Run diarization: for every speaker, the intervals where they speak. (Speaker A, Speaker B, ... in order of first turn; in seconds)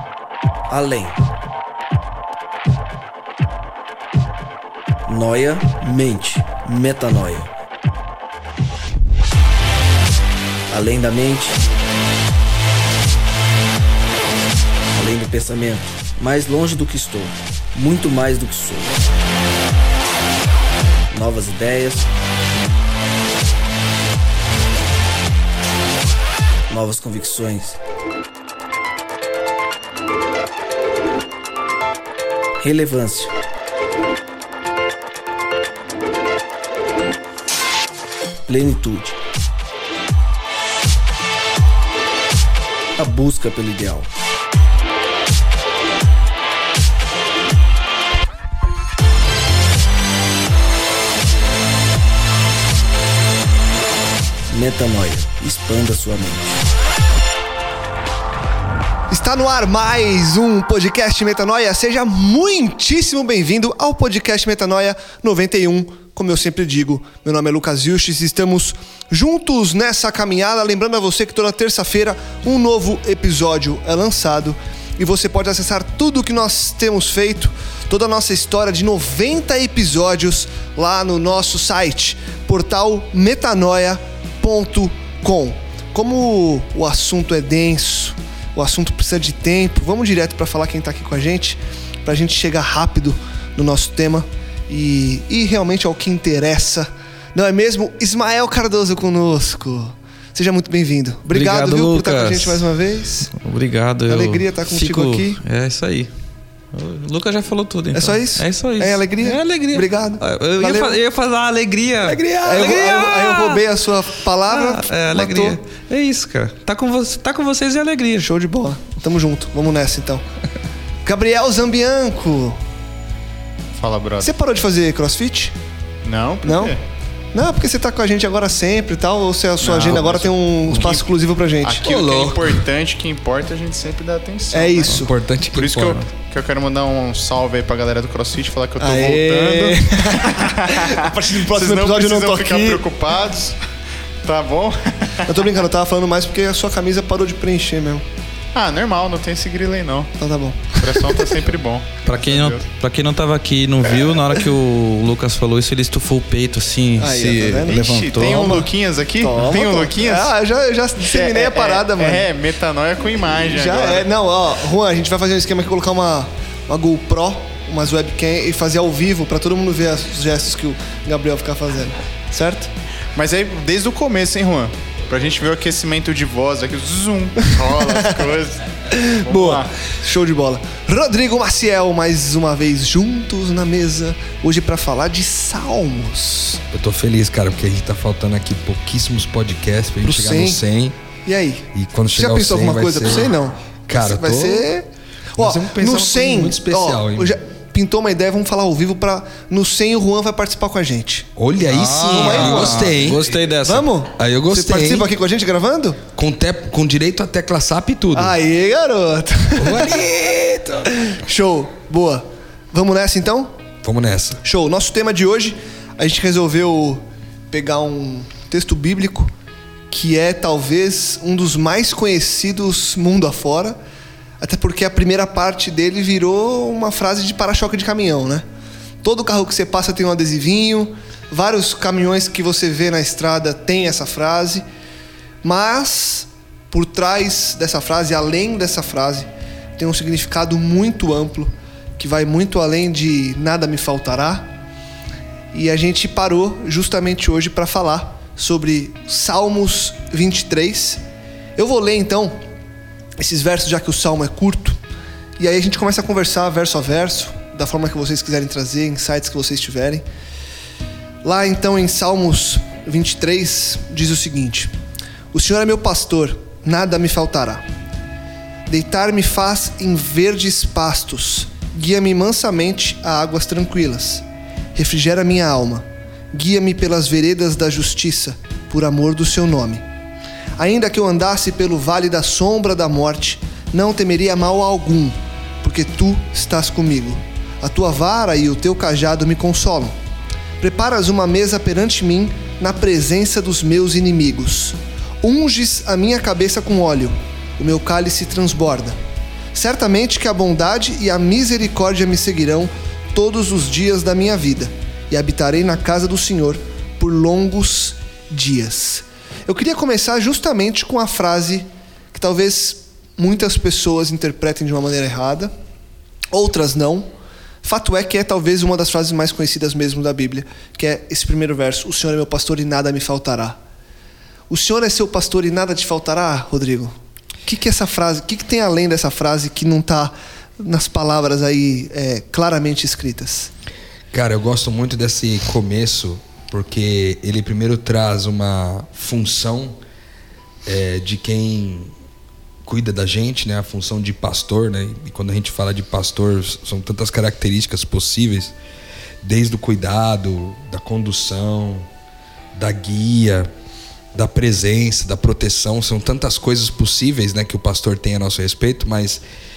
Speaker A: 0.7-1.1, 5.1-7.5, 10.7-11.6, 14.9-19.1, 21.1-22.1, 26.7-27.8, 32.6-33.3, 38.5-39.2, 43.0-44.1, 54.5-56.6
Speaker B: 59.1-103.3, 104.1-105.4, 107.9-111.0, 112.4-115.6, 118.2-120.2, 121.0-122.6, 124.2-125.5, 126.4-126.8, 127.3-131.9, 134.5-135.1, 138.8-142.8, 145.2-148.0, 150.2-151.4, 157.0-162.3, 163.3-172.7, 177.7-178.2, 178.9-186.6, 190.0-190.6, 191.2-201.3, 202.1-206.0, 208.1-210.0, 211.0-213.5, 214.4-219.3, 219.9-223.8, 224.4-228.4, 229.0-234.6, 235.4-244.5, 245.5-251.0, 251.6-252.4, 253.2-254.8, 255.4-260.0, 261.2-264.7, 265.3-267.6, 268.7-274.2, 274.7-279.8, 280.6-289.9, 290.6-299.0, 299.5-315.5, 316.3-317.1, 317.6-323.6, 324.5-326.9, 327.4-333.5
Speaker C: 101.3-102.6, 103.3-106.1, 106.7-113.6, 114.5-118.3, 152.0-158.6, 201.7-203.9
Speaker D: 112.0-112.9, 131.8-132.6, 134.9-136.1, 186.7-190.9, 191.7-193.3, 193.9-194.7, 195.3-197.3, 201.3-203.3, 204.2-205.1, 206.1-208.4, 209.6-211.0, 213.8-214.4, 334.1-339.8, 340.6-341.9, 342.6-348.5, 349.2-351.9, 352.5-353.5, 354.1-359.2
Speaker E: 123.8-124.3, 126.0-126.8, 129.6-131.1, 131.6-143.6, 144.2-145.5, 148.5-150.1, 150.8-152.6, 157.7-160.3, 161.0-164.1, 173.1-179.8